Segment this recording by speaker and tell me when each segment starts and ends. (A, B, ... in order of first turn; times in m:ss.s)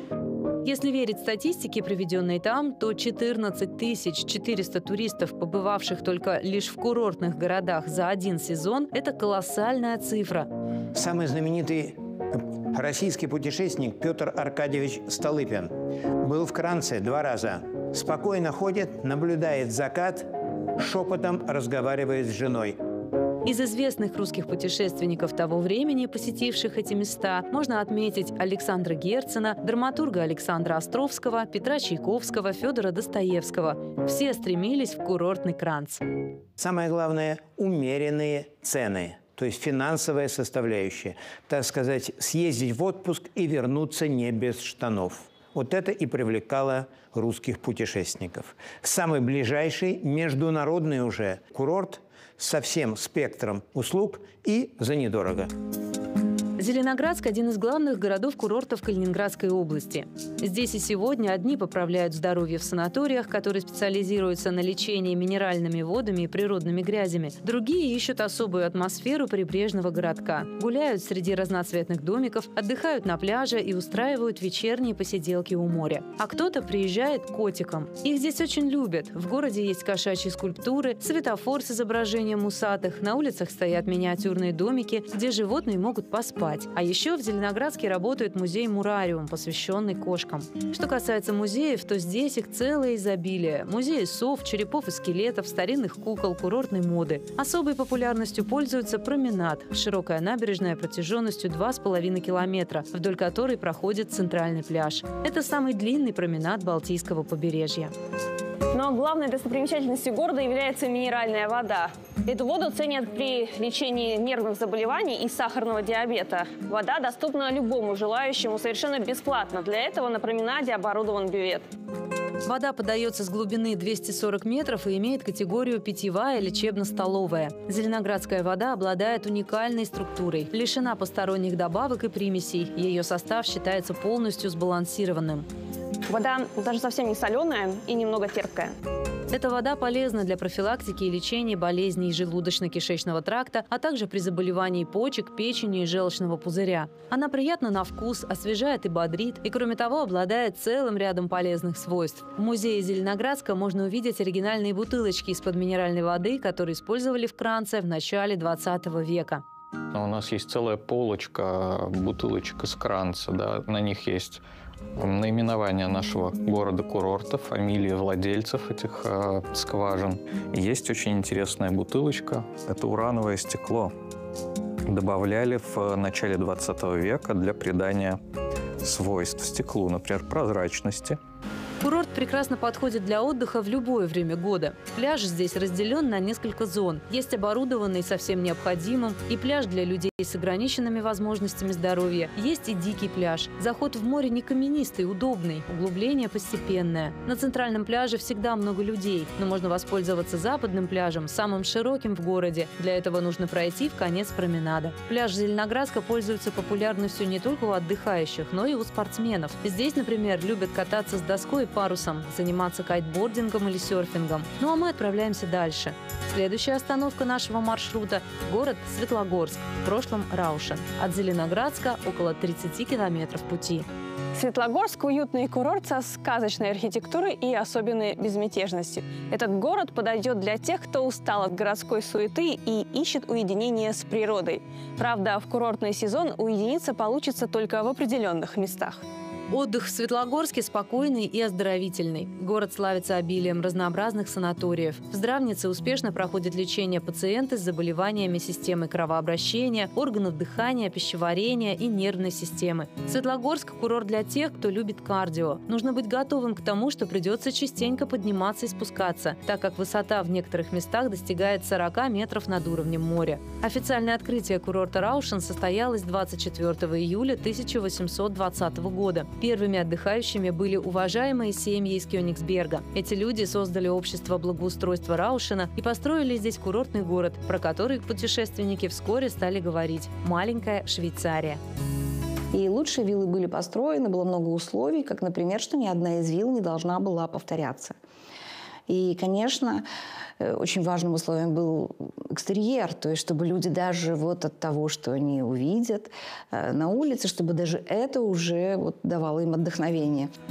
0:00.6-0:10.5 A
0:10.9-0:22.8 B
0:23.4-0:36.0 A
0:36.6-0:55.5 B
0:56.6-1:47.9 A
1:48.7-2:01.7 C
2:02.4-2:15.5 A
2:16.1-2:18.7 C
2:19.3-2:39.4 A
2:39.9-2:44.4 D
2:45.0-2:53.9 D
2:54.9-2:58.2 D
2:58.8-3:01.2 D
3:01.8-3:43.9 A
3:44.3-3:59.0 C
3:59.5-4:41.6 A
4:42.5-4:48.0 E
4:48.9-4:49.8 E
4:50.4-5:00.3 E